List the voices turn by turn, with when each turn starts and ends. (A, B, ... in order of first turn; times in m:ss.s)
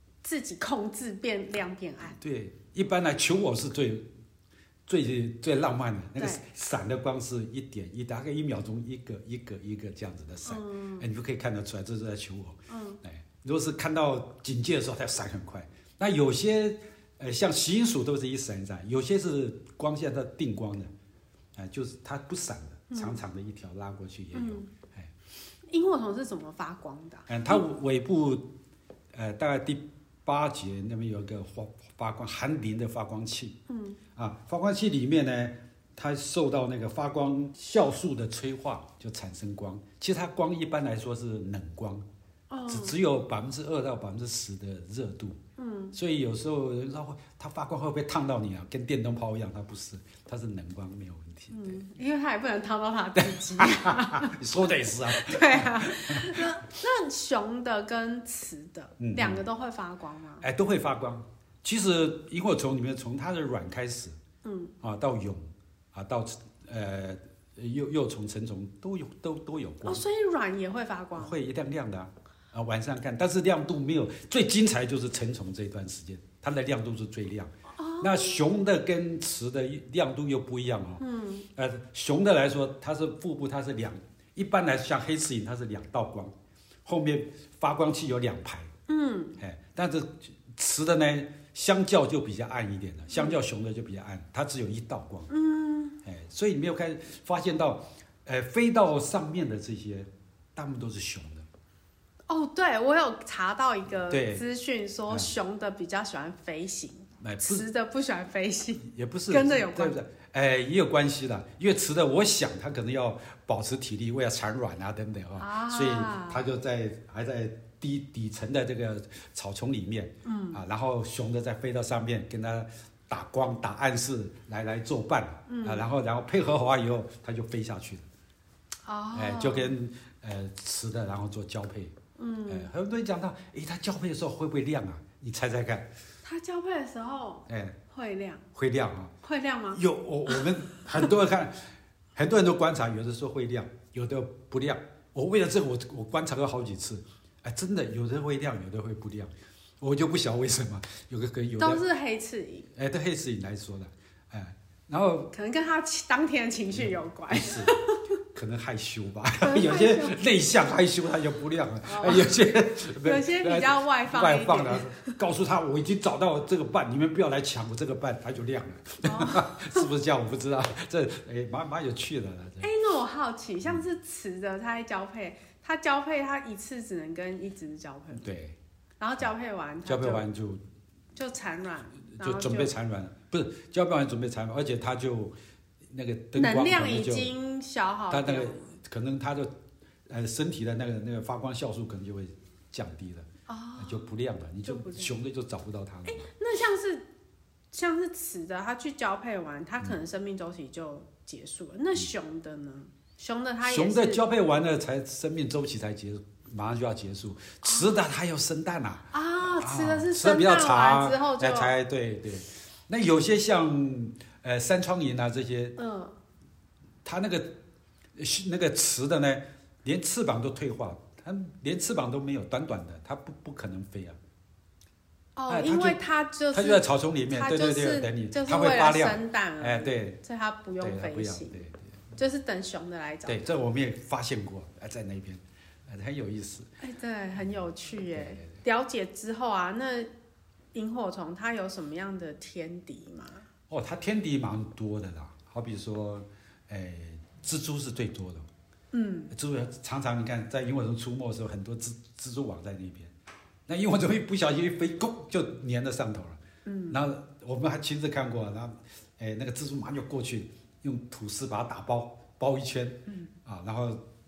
0:00.2-0:02.2 A
0:02.2-0:04.1 B
0:04.9-0:20.9 B
0:06.2-0:06.4 A
0:10.5-0:11.1 A
0:12.7-0:13.0 A
0:21.6-0:25.1 B
0:22.9-0:23.2 A
0:24.3-0:24.7 A
0:25.7-0:27.6 A
0:27.3-0:28.5 B
0:29.1-0:33.6 B
0:33.7-0:34.0 A
0:34.2-0:42.1 B
0:42.5-0:43.0 A
0:42.7-0:45.4 B
0:45.6-0:46.0 A
0:45.9-0:51.8 B
0:51.5-1:00.5 A
0:53.2-0:56.5 B
0:59.0-0:59.5 B
1:00.4-1:04.2 B
1:04.4-1:04.8 A
1:04.8-1:10.0 B
1:09.8-1:11.4 A
1:11.2-1:21.0 B
1:17.7-1:18.5 A
1:21.0-1:21.5 A
1:21.6-1:26.3 B
1:26.8-1:28.7 B
1:28.9-1:29.4 A
1:29.4-1:35.3 B
1:33.1-1:33.4 A
1:35.3-1:36.0 A
1:36.0-1:41.5 B
1:42.3-1:50.0 A
1:44.1-1:44.4 B
1:45.1-1:45.3 B
1:47.2-1:47.7 B
1:48.8-2:08.1 B
1:55.4-1:56.4 A
2:00.2-2:00.6 A
2:05.5-2:05.8 A
2:08.8-2:09.8 A
2:09.1-2:12.0 B
2:12.2-2:12.7 A
2:12.5-2:15.9 B
2:16.2-2:18.5 A
2:17.5-2:17.8 B
2:18.6-2:19.1 B
2:19.2-2:21.1 A
2:19.7-2:31.8 B
2:31.6-2:32.7 A
2:32.8-2:35.3 B
2:35.3-2:38.0 A
2:36.7-2:37.7 B
2:38.3-2:52.7 B
2:39.4-2:40.2 A
2:41.8-2:42.4 A
2:43.0-2:45.2 A
2:49.0-2:49.8 A
2:52.6-2:58.2 A
2:58.2-2:58.6 B
2:59.0-3:00.3 A
2:59.9-3:00.6 B
3:01.2-3:02.7 A
3:02.1-3:05.3 B
3:05.9-3:07.3 B
3:06.4-3:08.8 A
3:08.1-3:09.5 B
3:10.1-3:16.3 B
3:13.5-3:15.2 A
3:16.1-3:17.1 A
3:17.7-3:24.2 A
3:23.6-3:35.8 B
3:27.6-3:28.0 A
3:29.1-3:31.7 A
3:35.8-3:36.2 A
3:37.0-3:37.6 B
3:38.2-3:44.2 B
3:45.4-3:51.6 A
3:45.5-3:46.0 B
3:46.5-3:50.2 B
3:50.8-3:52.1 B
3:52.2-3:53.5 A
3:53.3-3:56.7 B
3:56.8-4:00.1 A
3:58.1-3:58.6 B
4:00.7-4:03.5 A
4:03.7-4:08.5 B
4:08.9-4:09.3 A
4:09.3-4:13.1 B
4:13.7-4:24.0 B
4:16.7-4:17.0 A
4:23.1-4:23.3 A